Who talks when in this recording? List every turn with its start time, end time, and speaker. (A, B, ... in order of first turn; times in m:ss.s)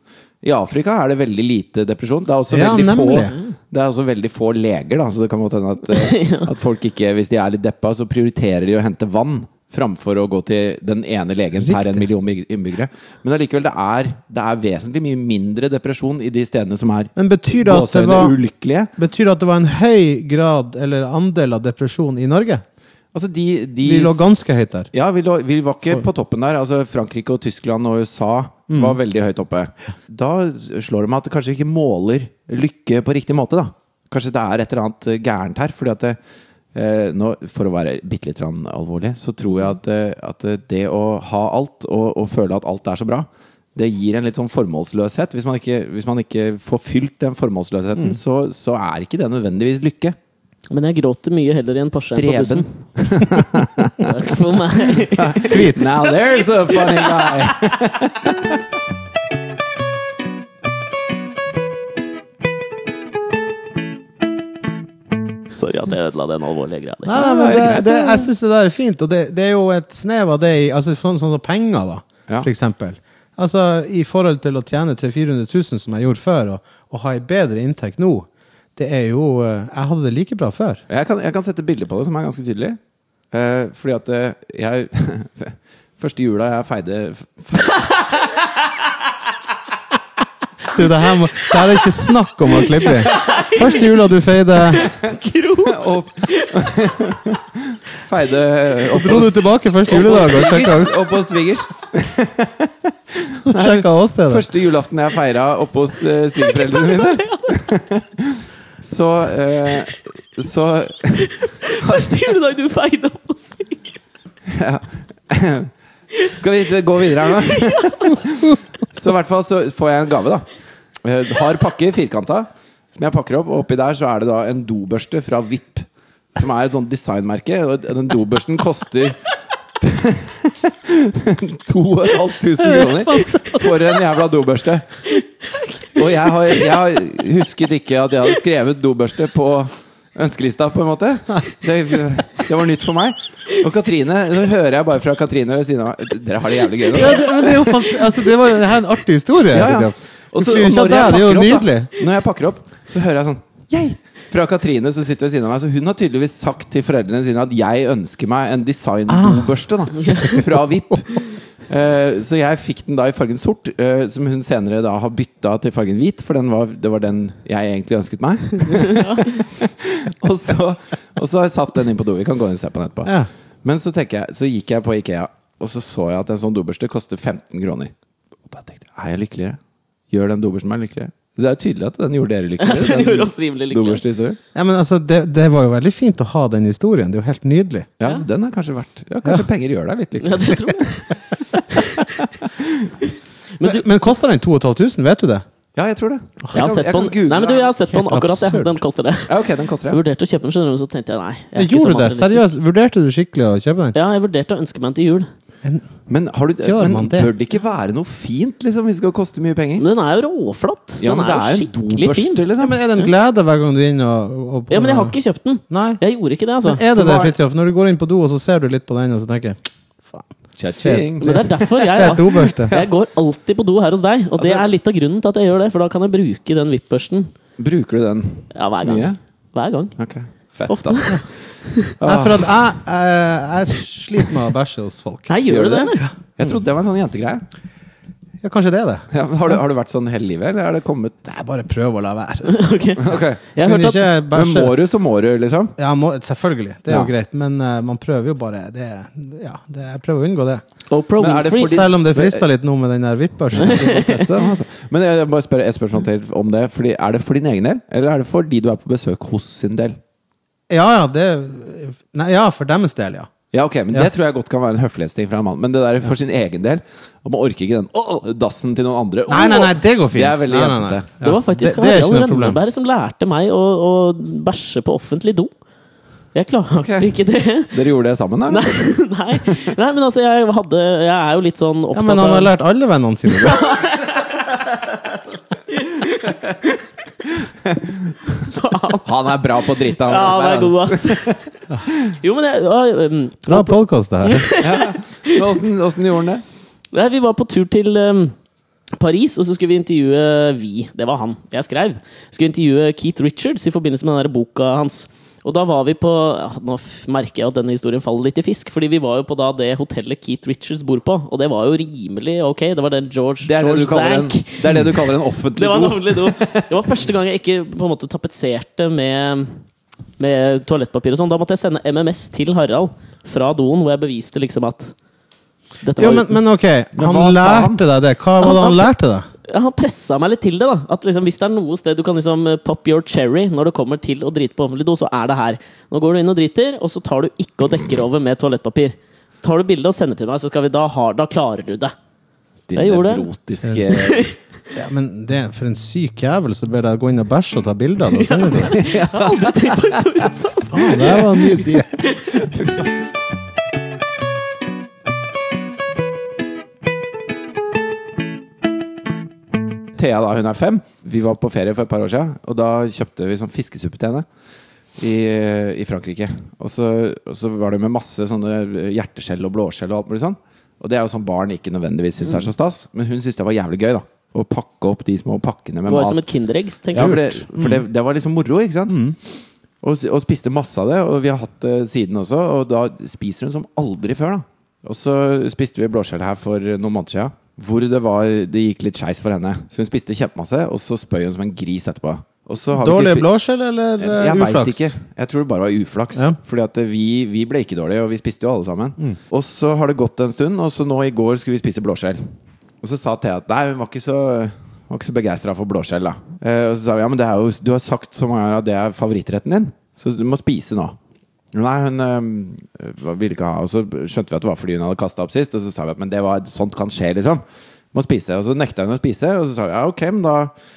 0:00.4-0:18.9 A
0:02.5-0:03.4 B
0:05.9-0:06.5 C
0:11.6-0:12.1 B
0:17.2-0:18.4 B
0:19.0-0:22.6 B
0:23.1-0:24.2 A
0:23.8-0:24.9 B
0:24.9-0:36.2 A
0:28.7-0:29.0 B
0:36.7-0:50.2 A
0:50.7-0:52.7 C
0:52.0-0:54.1 A
0:54.0-0:57.9 C
0:55.2-0:58.6 A
0:55.3-0:55.9 B
1:05.5-1:07.4 C
1:07.0-1:20.8 B
1:07.1-1:08.3 A
1:20.9-1:22.8 A
1:23.3-1:28.3 A
1:27.8-1:28.7 C
1:30.7-1:34.9 B
1:32.8-1:33.9 C
1:34.6-1:36.9 C
1:35.6-1:52.2 A
1:38.9-1:41.1 B
1:43.5-1:44.4 B
1:46.3-1:47.8 C
1:51.2-1:54.0 C
1:54.5-1:55.7 A
1:56.2-2:00.5 A
1:57.2-1:58.2 C
2:01.0-2:09.2 A
2:09.8-2:14.9 A
2:12.8-2:13.5 B
2:13.1-2:13.6 C
2:15.1-2:16.7 C
2:15.9-2:28.2 A
2:26.9-2:31.9 B
2:29.5-2:57.9 A
2:39.1-2:39.5 B
2:40.0-2:40.4 C
2:48.7-2:49.5 C
2:58.5-2:59.6 A
3:00.1-3:04.4 A
3:02.6-3:04.0 C
3:04.5-3:07.9 B
3:08.0-3:10.6 A
3:10.2-3:11.2 C
3:11.7-3:12.2 C
3:12.4-3:12.9 A
3:13.6-3:13.8 C
3:13.6-3:15.4 B
3:15.8-3:17.7 A
3:16.5-3:22.5 C
3:17.9-3:18.7 B
3:19.3-3:20.0 A
3:21.5-3:24.0 B
3:23.9-3:25.3 C
3:26.1-3:29.8 A
3:26.6-3:27.3 B
3:29.8-3:32.4 C
3:31.0-3:32.8 A
3:32.6-3:35.2 B
3:34.7-3:36.9 C
3:35.7-3:36.0 B
3:36.6-3:42.7 B
3:36.9-3:37.4 A
3:40.6-3:42.0 A
3:41.2-3:47.3 C
3:44.4-3:44.7 A
3:47.6-3:49.2 A
3:48.5-3:49.9 C
3:50.0-3:51.2 A
3:50.7-3:51.9 C
3:52.0-3:52.5 A
3:52.0-3:56.1 B
3:55.3-3:56.1 C
3:55.5-3:57.4 A
3:58.4-3:59.5 B
3:59.1-4:01.3 A
4:01.2-4:02.6 B
4:02.4-4:04.0 C
4:03.0-4:03.4 A
4:03.6-4:04.8 B
4:04.3-4:05.8 A
4:05.8-4:10.6 B
4:10.9-4:11.8 C
4:11.2-4:12.4 A
4:11.6-4:13.9 B
4:13.5-4:20.0 A
4:13.6-4:14.3 C
4:20.7-4:23.3 B
4:23.5-4:31.1 A
4:29.3-4:32.6 B
4:31.2-4:35.5 C
4:36.3-4:37.8 C
4:36.8-4:37.1 A
4:37.6-4:38.7 A
4:38.5-4:42.5 C
4:41.9-4:43.8 B
4:43.4-4:44.6 C
4:45.7-4:46.4 C
4:47.6-4:48.3 A
4:48.4-4:49.1 C
4:49.0-4:52.1 A
4:49.8-4:51.4 C
4:52.1-4:55.4 C
4:53.4-4:54.5 B
4:54.6-4:56.4 A
4:56.9-4:58.3 C
4:59.0-5:15.0 C
5:13.4-5:16.7 A
5:15.5-5:19.5 C
5:20.2-5:24.9 C
5:25.8-5:26.3 C
5:26.0-5:29.3 B
5:26.9-5:27.8 A
5:28.4-5:28.9 C
5:29.5-5:41.9 C
5:42.7-5:44.3 A
5:42.7-5:43.3 C
5:43.6-5:44.0 B
5:43.8-5:44.4 C
5:44.7-5:48.8 B
5:48.1-5:52.4 C
5:48.6-5:50.2 A
5:50.7-5:51.9 B
5:51.0-5:52.9 A
5:59.9-6:04.2 A
6:05.0-6:16.4 A
6:15.9-6:17.4 C
6:16.9-6:33.3 A
6:16.9-6:17.8 B
6:18.9-6:19.2 B
6:32.7-6:34.9 B
6:34.0-6:42.2 A
6:42.8-6:51.0 A
6:51.5-6:57.4 A
6:57.9-7:00.5 A